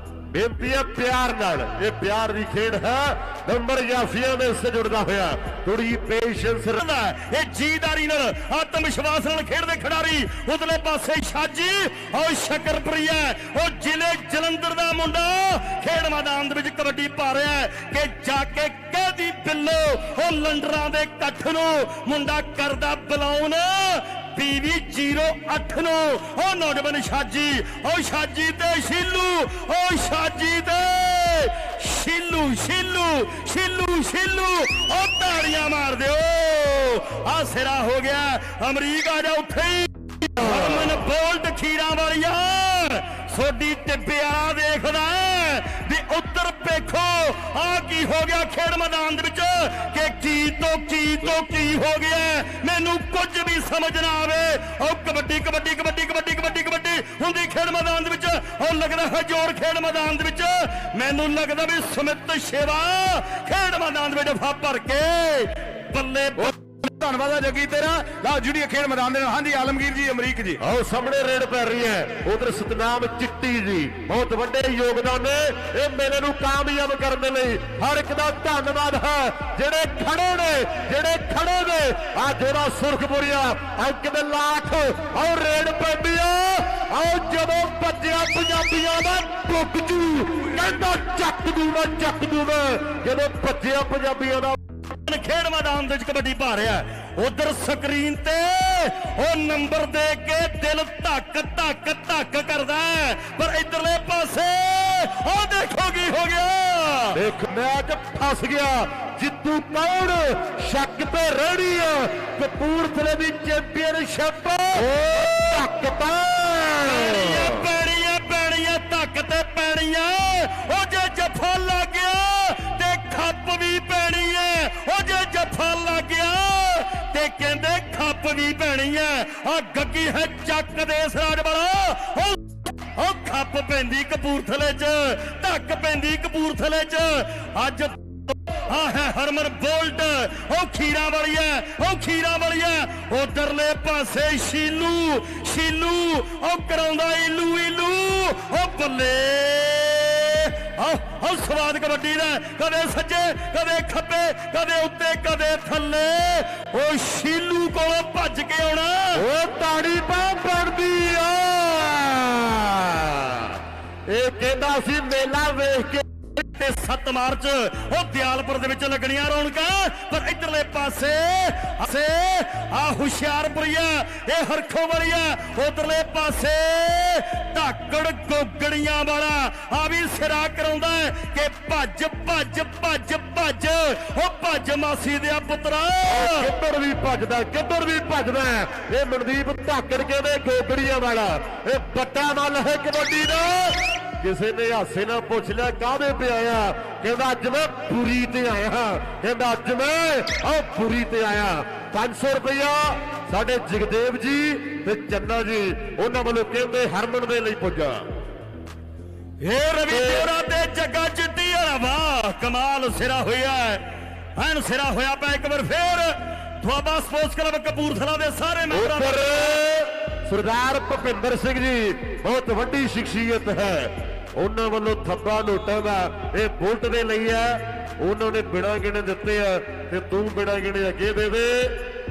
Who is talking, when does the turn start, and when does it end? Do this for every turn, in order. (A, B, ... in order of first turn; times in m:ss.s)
0:00.3-0:06.8 A
0:06.7-1:06.6 B
1:06.4-1:10.6 C
1:10.6-1:34.6 A
1:34.8-1:47.2 B
1:47.1-1:57.6 A
1:54.7-1:55.5 B
1:56.8-2:39.2 B
2:39.1-2:46.0 A
2:46.4-3:06.5 B
3:06.1-3:28.1 A
3:29.4-3:33.8 B
3:29.9-3:30.3 A
3:34.4-3:39.6 B
3:38.7-3:51.8 A